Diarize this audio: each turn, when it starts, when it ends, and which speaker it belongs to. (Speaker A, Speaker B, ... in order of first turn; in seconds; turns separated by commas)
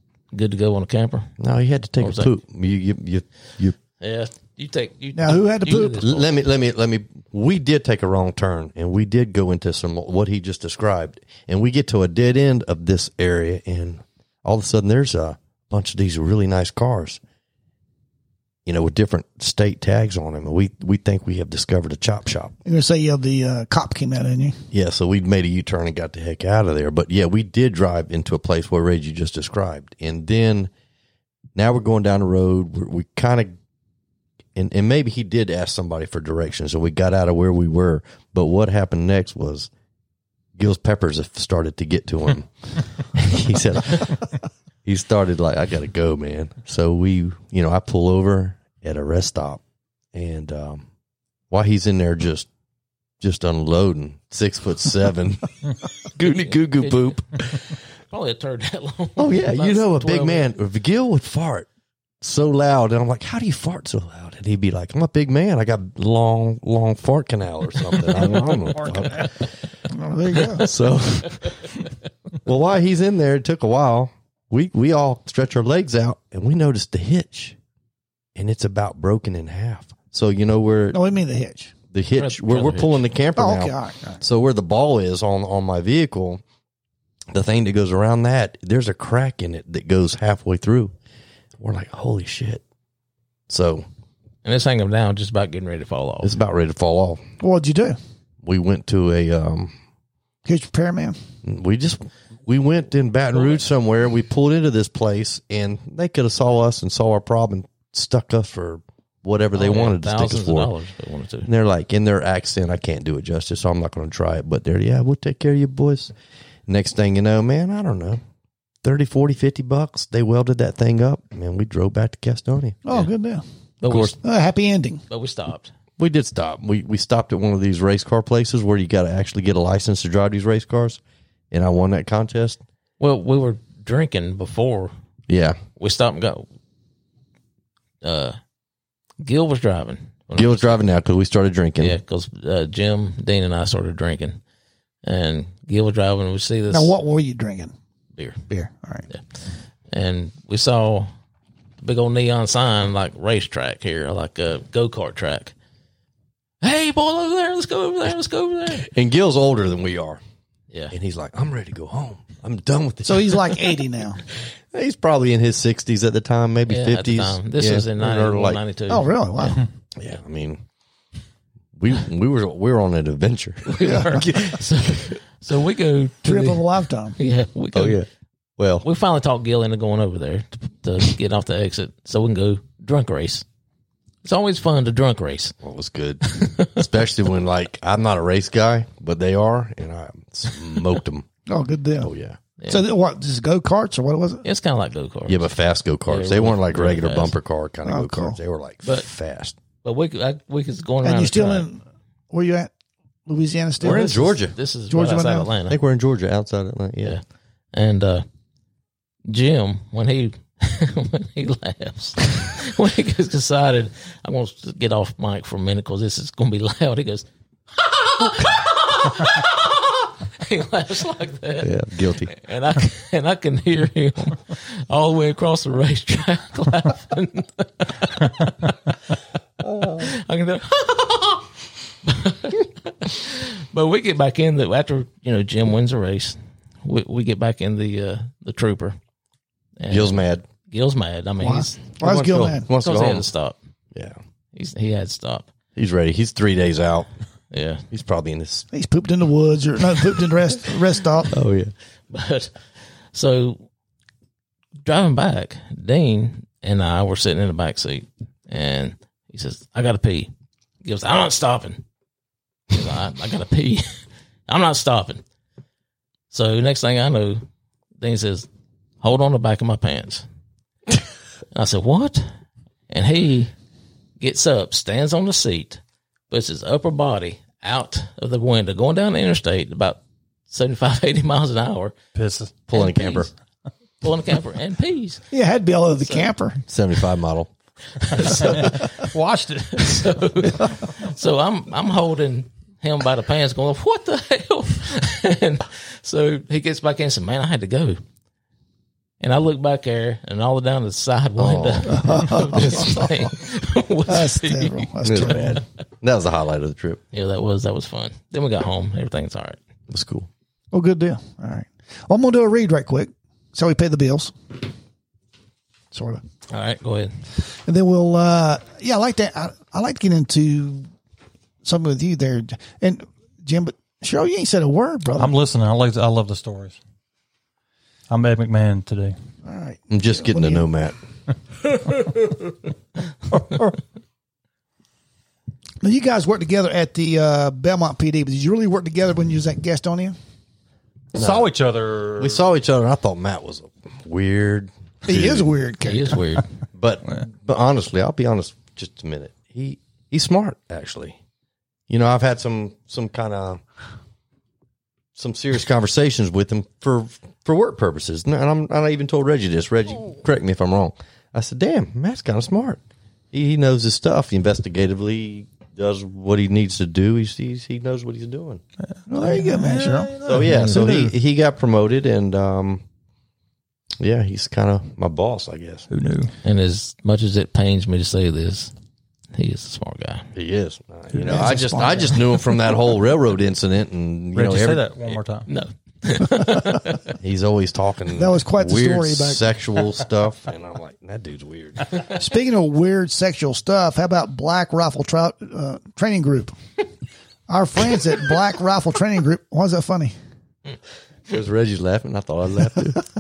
Speaker A: 0.3-1.3, Speaker B: 1.4-3.8, Speaker A: 2.0-2.3, Speaker A: 4.0-6.3, Speaker C: 5.2-6.0, Speaker B: 5.9-17.2, Speaker B: 18.7-22.6, Speaker C: 22.6-24.6, Speaker B: 24.7-30.7, Speaker B: 31.6-33.5, Speaker B: 34.5-39.7, Speaker B: 40.6-44.3, Speaker B: 44.9-49.6, Speaker B: 50.1-50.9, Speaker B: 51.5-52.5, Speaker B: 53.2-55.5, Speaker B: 56.1-57.7, Speaker A: 56.3-57.1, Speaker A: 58.1-60.5, Speaker B: 59.2-61.7, Speaker B: 62.2-69.5, Speaker C: 69.9-70.7, Speaker B: 70.5-71.7, Speaker B: 72.4-77.6, Speaker B: 78.4-81.0, Speaker C: 80.9-81.7, Speaker B: 81.9-86.4, Speaker A: 82.2-83.0, Speaker C: 83.4-84.2, Speaker B: 87.3-90.9, Speaker B: 91.6-92.6, Speaker B: 93.5-93.9, Speaker A: 94.4-96.3, Speaker B: 96.2-97.2, Speaker C: 97.4-98.0, Speaker B: 98.4-99.7, Speaker C: 100.5-101.2, Speaker B: 101.4-110.7, Speaker A: 109.5-111.5, Speaker B: 111.5-116.1, Speaker B: 116.7-118.2, Speaker B: 118.8-122.9, Speaker C: 122.8-123.4, Speaker A: 123.8-124.2, Speaker B: 123.9-124.2, Speaker C: 124.2-125.0, Speaker A: 125.1-125.7, Speaker B: 126.0-132.6, Speaker A: 133.0-134.9, Speaker B: 135.3-135.6, Speaker A: 135.8-136.5, Speaker A: 138.0-138.4, Speaker A: 139.2-140.8, Speaker B: 140.3-142.0, Speaker A: 141.8-144.4, Speaker A: 145.0-146.9, Speaker C: 146.7-147.7, Speaker C: 148.5-149.1, Speaker A: 149.9-151.1, Speaker A: 151.8-155.5, Speaker A: 156.6-158.9, Speaker B: 158.8-160.2, Speaker B: 160.9-163.8, Speaker C: 163.1-164.2, Speaker B: 164.7-168.6, Speaker A: 166.7-169.6, Speaker C: 168.9-169.7, Speaker B: 170.0-170.6, Speaker B: 171.8-174.6, Speaker A: 173.7-178.0, Speaker C: 173.8-174.3, Speaker C: 176.2-177.2, Speaker B: 177.7-178.1, Speaker B: 178.6-178.9, Speaker A: 178.8-183.4, Speaker A: 184.2-185.6, Speaker B: 185.6-191.3, Speaker A: 186.3-186.8, Speaker C: 191.5-192.1, Speaker B: 192.0-192.4, Speaker A: 192.6-192.8, Speaker C: 192.7-194.4, Speaker A: 194.4-195.5, Speaker B: 195.3-199.6, Speaker A: 196.1-197.3, Speaker C: 197.8-198.4, Speaker A: 199.8-201.7, Speaker C: 201.0-202.7, Speaker C: 203.3-205.5, Speaker B: 203.8-204.6, Speaker A: 203.9-205.8, Speaker B: 205.7-207.2, Speaker A: 207.7-208.3, Speaker A: 209.3-228.7, Speaker B: 221.6-222.3, Speaker B: 229.6-230.0, Speaker A: 229.9-239.0, Speaker A: 239.8-241.8, Speaker B: 239.9-240.4, Speaker C: 241.4-242.7, Speaker B: 242.0-243.3, Speaker A: 242.8-243.6, Speaker A: 244.5-245.5, Speaker B: 245.8-247.1, Speaker A: 247.5-247.9, Speaker B: 247.9-248.7, Speaker C: 248.7-251.3, Speaker B: 251.3-251.7, Speaker A: 252.1-252.6, Speaker A: 253.1-253.7, Speaker A: 254.8-260.3, Speaker A: 260.8-261.8, Speaker A: 262.7-263.9, Speaker A: 264.5-265.2, Speaker A: 266.3-267.4, Speaker A: 268.0-268.5, Speaker A: 269.0-270.2, Speaker A: 271.5-272.3, Speaker A: 272.9-273.5, Speaker A: 274.2-281.9, Speaker D: 282.1-282.5, Speaker B: 282.7-283.3, Speaker A: 282.7-283.3, Speaker A: 284.0-285.2, Speaker C: 285.3-286.6, Speaker A: 286.0-286.3, Speaker B: 286.7-287.5, Speaker A: 288.0-289.1, Speaker D: 288.4-290.1, Speaker A: 289.7-298.0, Speaker A: 299.2-305.6, Speaker B: 301.4-303.1, Speaker C: 302.0-302.9, Speaker C: 304.1-305.6, Speaker B: 305.0-307.0, Speaker A: 307.1-309.6, Speaker B: 309.9-310.3, Speaker C: 310.7-314.6, Speaker C: 315.9-316.2, Speaker A: 316.5-317.1, Speaker C: 317.5-320.9, Speaker C: 321.6-325.4, Speaker D: 325.2-326.8, Speaker D: 328.1-329.1, Speaker C: 329.4-330.6, Speaker B: 329.9-330.9, Speaker D: 333.3-333.8, Speaker C: 335.8-340.2, Speaker D: 341.1-342.4, Speaker B: 341.1-341.5, Speaker B: 342.2-345.5, Speaker C: 345.1-346.2, Speaker A: 345.8-346.5, Speaker B: 346.8-351.2, Speaker B: 351.9-353.6, Speaker B: 355.1-362.8, Speaker B: 363.3-368.6, Speaker D: 368.8-371.1, Speaker C: 369.1-370.1, Speaker B: 370.2-372.8, Speaker A: 370.4-370.9, Speaker B: 374.0-375.9, Speaker D: 375.9-376.3, Speaker A: 376.4-378.7, Speaker A: 379.4-380.3, Speaker B: 380.4-385.2, Speaker C: 381.2-382.5, Speaker D: 384.4-385.5, Speaker A: 385.5-387.0, Speaker B: 387.2-392.1, Speaker C: 388.1-389.4, Speaker C: 392.0-396.6, Speaker C: 397.5-400.1, Speaker B: 401.3-403.0